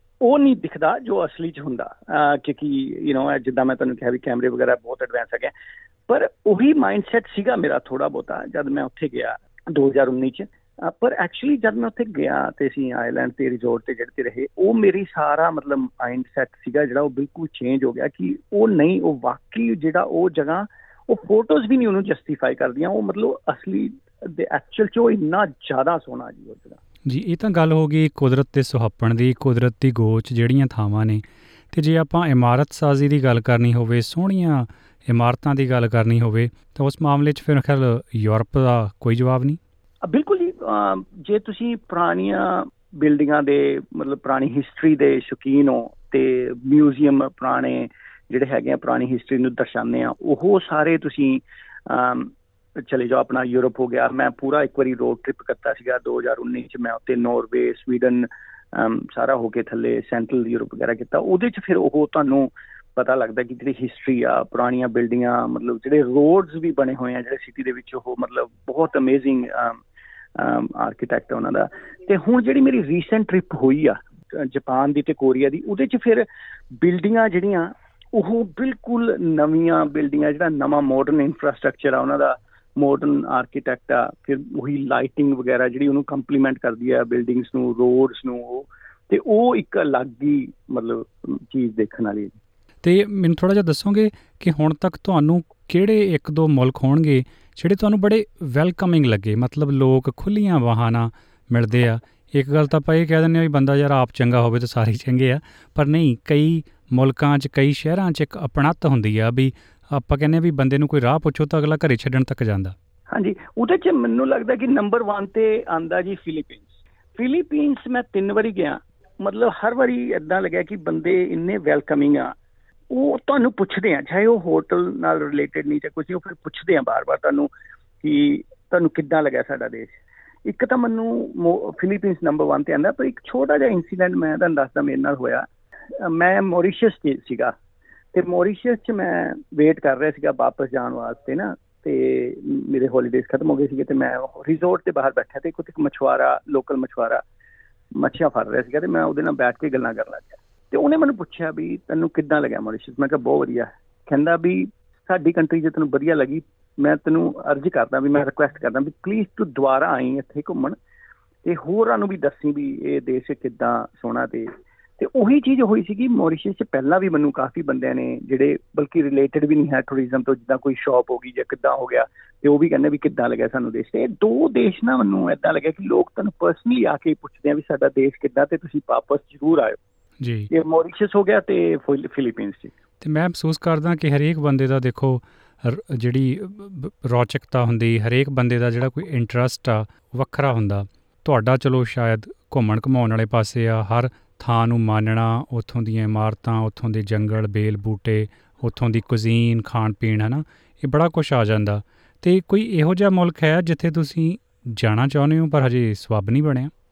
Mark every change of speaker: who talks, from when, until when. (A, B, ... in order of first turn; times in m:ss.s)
0:00.2-0:05.5 A
0:06.1-0:26.8 A
0:27.0-0:39.6 B
0:40.0-1:09.8 A
1:10.3-1:16.2 A
1:16.8-1:32.4 A
1:32.8-1:52.7 B
1:53.1-2:02.3 A
2:02.9-2:07.5 A
2:08.0-2:15.5 A
2:16.0-2:17.5 A
2:18.1-2:27.2 A
2:28.0-2:40.8 A
2:41.4-2:59.8 A
3:00.2-3:00.5 B
3:00.5-3:02.7 A
3:03.0-3:26.7 B